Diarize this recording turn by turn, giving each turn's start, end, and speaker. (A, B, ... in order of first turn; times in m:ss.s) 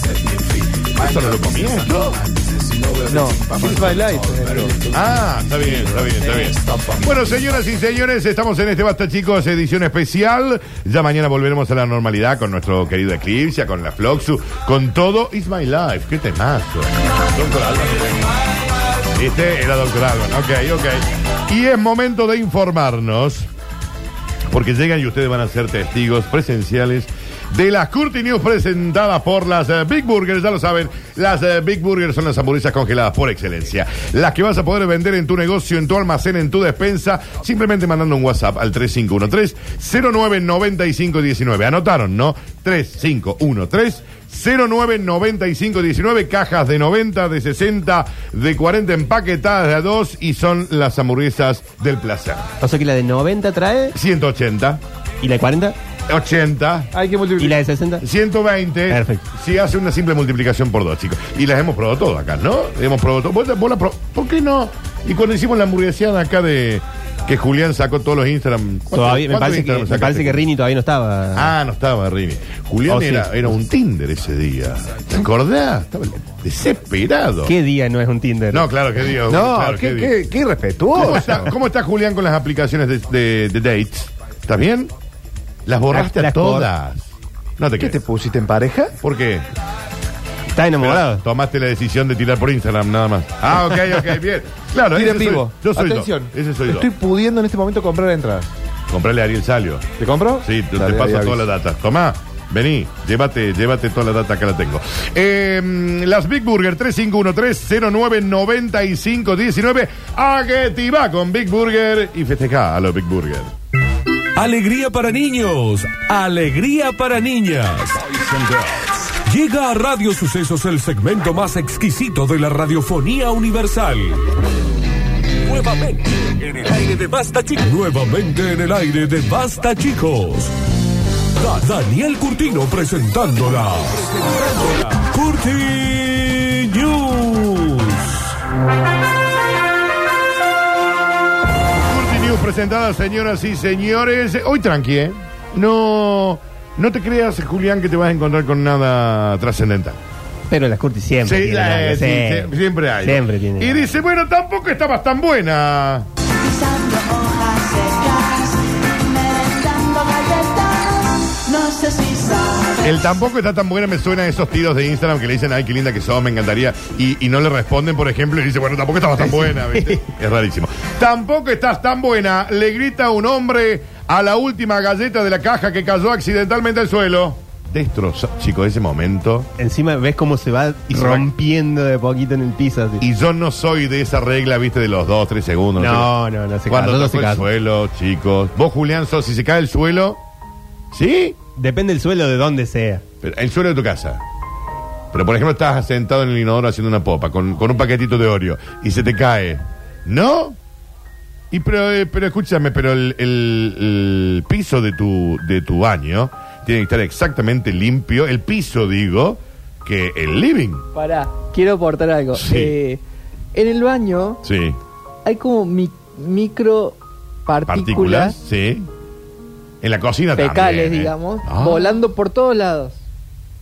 0:00.2-0:02.3 A
0:03.1-0:04.9 B
0:04.9-0:18.4 A
0:19.1-0:23.5 A
0:24.5-0:52.5 A
0:52.6-0:53.9 C
0:53.9-0:54.8 A
0:55.2-0:55.7 C
0:56.1-0:56.9 A
0:56.9-0:57.6 B
0:57.4-0:58.0 C
0:58.0-1:10.5 A
0:58.9-0:59.2 C
1:08.9-1:11.5 C
1:11.3-1:17.5 A
1:12.9-1:13.5 C
1:17.4-1:18.7 C
1:18.5-1:20.2 A
1:19.3-1:21.4 B
1:20.9-1:24.9 A
1:25.6-1:28.0 A
1:25.9-1:26.7 C
1:27.8-1:29.0 B
1:29.0-1:29.5 A
1:30.5-1:31.2 C
1:30.8-1:36.9 A
1:34.9-1:38.5 B
1:38.9-1:39.9 A
1:40.0-1:41.4 B
1:40.4-1:53.5 A
1:54.3-2:04.3 D
2:05.4-2:10.6 D
2:11.3-2:18.4 D
2:21.8-2:30.0 A
2:30.5-2:33.9 C
2:31.2-2:36.1 A
2:36.5-2:38.4 E
2:39.2-2:40.7 E
2:41.6-2:42.3 E
2:42.8-2:59.5 A
2:49.4-2:50.0 C
2:59.6-3:03.0 C
3:00.9-3:01.3 A
3:03.0-3:06.1 A
3:05.8-3:07.4 C
3:06.7-3:10.2 A
3:10.9-3:11.4 A
3:11.6-3:13.0 C
3:13.2-3:14.2 A
3:15.1-3:20.6 A
3:21.5-3:30.8 A
3:30.9-3:33.0 F
3:32.3-3:32.7 A
3:33.5-3:34.4 F
3:34.4-3:34.8 A
3:35.2-3:38.4 F
3:37.6-3:38.9 A
3:39.8-3:42.0 A
3:40.3-3:43.0 F